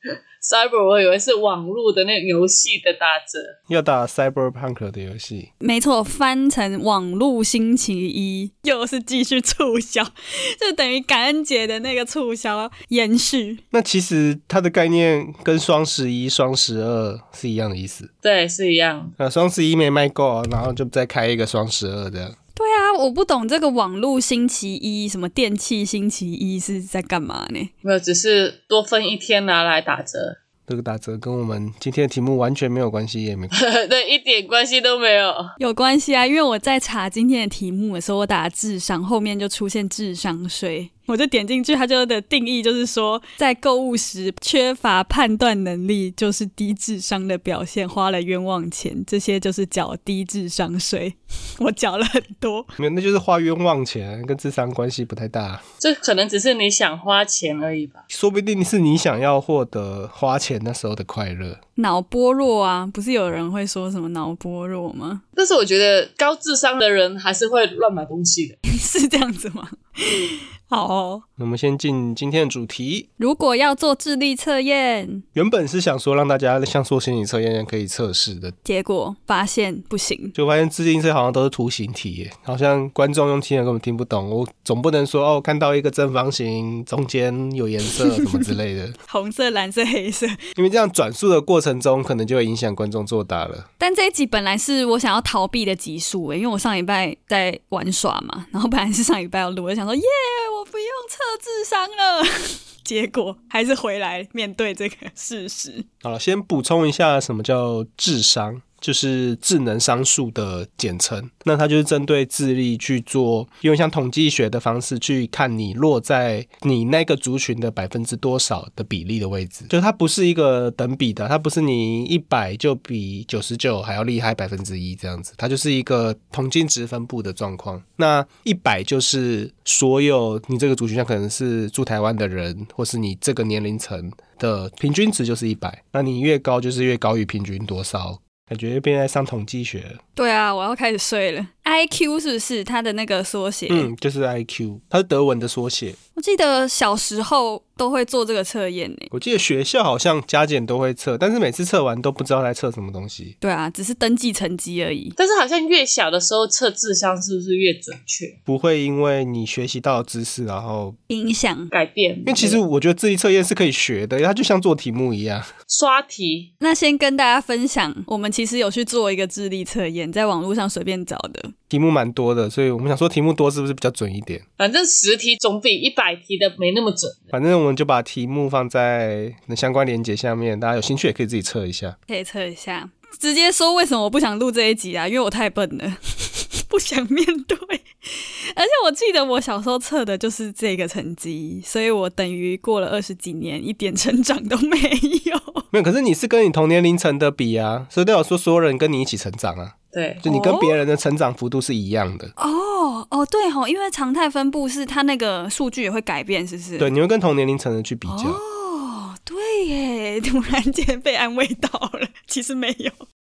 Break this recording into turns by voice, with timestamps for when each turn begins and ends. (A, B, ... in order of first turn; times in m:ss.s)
0:00.4-0:03.6 A
0:03.7-0:05.5 B
0:05.6-0:13.6 C
0:13.7-0:18.1 B
0:18.2-0:19.1 A
0:19.2-0:22.4 B
0:22.6-0:27.7 C
0:27.8-0:30.4 A
0:30.7-0:33.5 B
0:33.5-0:35.5 A
0:35.6-0:52.7 C
0:52.8-0:55.6 B
0:55.8-0:58.0 A
0:58.1-1:01.6 B
1:01.8-1:05.2 C
1:05.4-1:08.6 A
1:08.6-1:11.2 C
1:11.4-1:13.1 B
1:13.2-1:15.2 C
1:15.3-1:18.6 B
1:18.6-1:20.3 C
1:20.4-1:29.0 B
1:29.1-1:30.4 C
1:30.6-1:33.7 B
1:33.8-1:45.8 C
1:46.0-2:20.0 B
2:20.2-2:23.9 C
2:23.7-2:26.0 B
2:26.2-2:29.1 C
2:29.1-2:33.4 B
2:33.4-2:35.2 C
2:35.2-2:38.4 A
2:38.5-2:41.0 B
2:41.1-2:41.7 C
2:41.7-2:42.6 A
2:42.2-2:45.5 B
2:45.7-2:46.5 A
2:46.6-2:51.5 C
2:51.7-2:54.4 B
2:54.6-2:57.3 A
2:57.3-3:02.0 B
3:02.1-3:15.6 C
3:15.7-3:22.3 B
3:19.9-3:20.2 A
3:20.2-3:20.8 C
3:22.4-3:26.9 C
3:26.8-3:28.4 B
3:28.1-3:33.0 C